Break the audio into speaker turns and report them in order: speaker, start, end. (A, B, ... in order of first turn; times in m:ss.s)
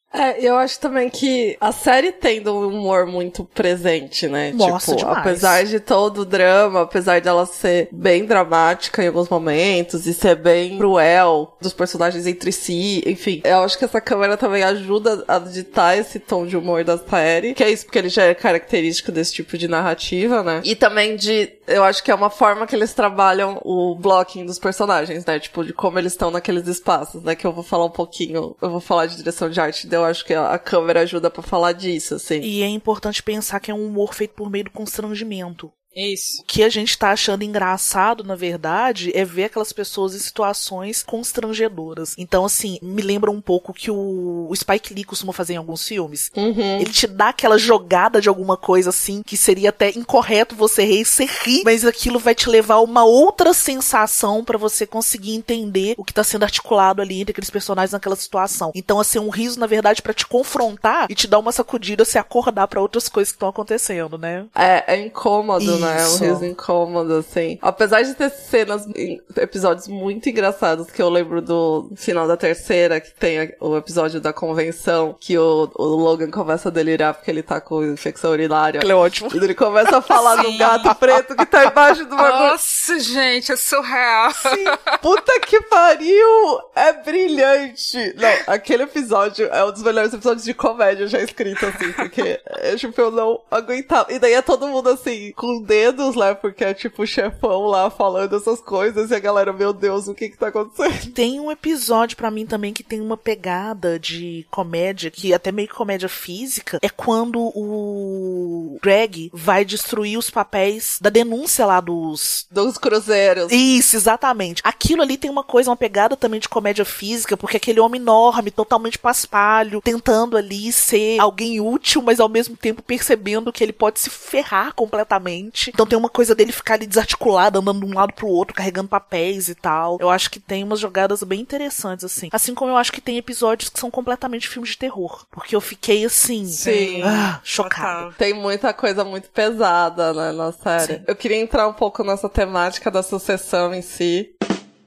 0:00.1-0:32.5 A
0:04.5-0:05.6 B
0:32.4-0:35.7 B
0:36.0-0:36.4 C
0:36.4-1:04.5 B
0:46.4-0:46.9 A
1:04.6-1:22.6 A
1:05.6-1:06.5 B
1:18.8-1:21.7 B
1:20.3-1:20.9 C
1:22.2-1:25.0 C
1:24.4-1:24.7 B
1:25.0-1:41.2 A
1:41.1-1:52.4 B
1:52.5-1:53.6 A
1:53.5-2:18.1 B
2:16.5-2:18.2 C
2:16.6-2:17.3 A
2:18.2-2:24.3 A